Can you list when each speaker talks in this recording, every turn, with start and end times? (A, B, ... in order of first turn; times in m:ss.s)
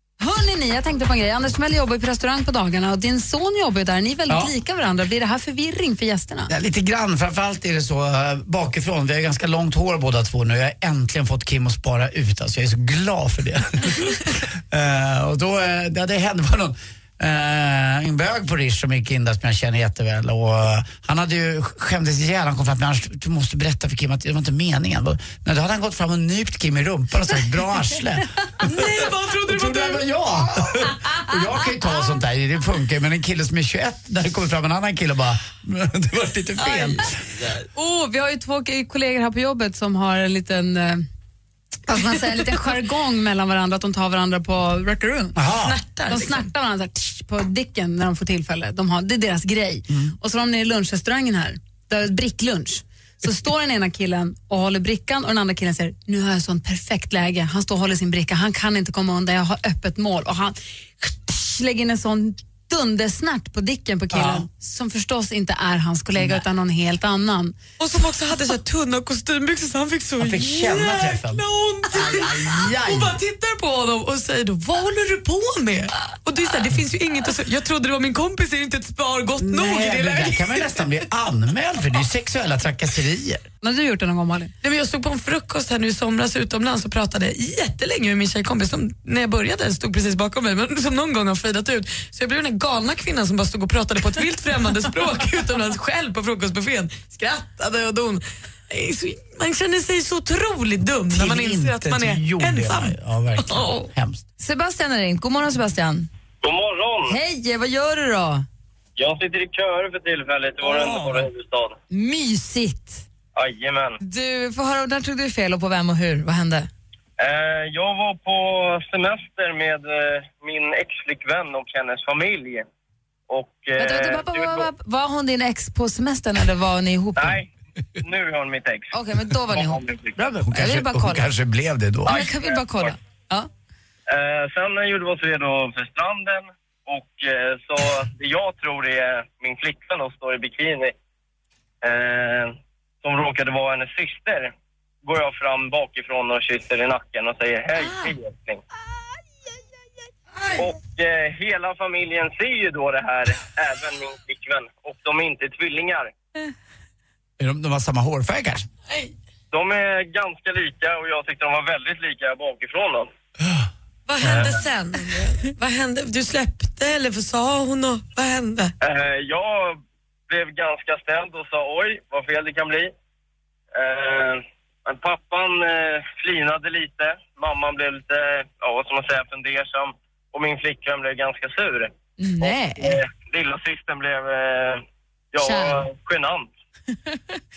0:00.2-0:06.5 A
0:06.5-0:28.7 B
0:28.6-0:30.1 C
0:29.5-0:37.1 B
0:36.6-0:36.9 C
0:37.7-0:41.0 A
0:41.9-0:45.4 A
0:45.4-0:45.8 B
0:45.6-0:46.5 C
0:46.1-1:07.6 A
1:04.1-1:04.5 B
1:07.8-1:21.0 C
1:10.2-1:13.2 B
1:19.4-1:23.4 B
1:23.6-1:24.5 A
1:24.6-1:43.9 C
1:41.1-1:44.2 B
1:44.4-1:46.1 A
1:46.4-1:47.2 D
1:47.0-1:48.4 A
1:49.0-1:51.8 D
1:50.6-1:51.2 B
1:51.9-1:53.0 A
1:53.4-1:54.0 D
1:54.0-1:56.7 A
1:57.2-2:02.6 D
2:03.3-2:04.7 D
2:03.8-2:07.4 A
2:07.2-2:08.9 D
2:08.9-2:11.3 A
2:09.5-2:10.2 D
2:10.4-2:12.2 B
2:12.0-2:13.5 A
2:12.0-2:12.9 D
2:14.1-2:20.9 D
2:21.8-2:24.5 D
2:25.0-2:28.6 D
2:30.6-2:36.1 D
2:37.4-2:38.7 B
2:39.5-2:43.1 D
2:44.1-2:48.7 C
2:44.2-2:44.5 D
2:48.8-2:52.9 D
2:53.7-3:06.5 D
3:02.2-3:03.0 A
3:05.4-3:05.9 A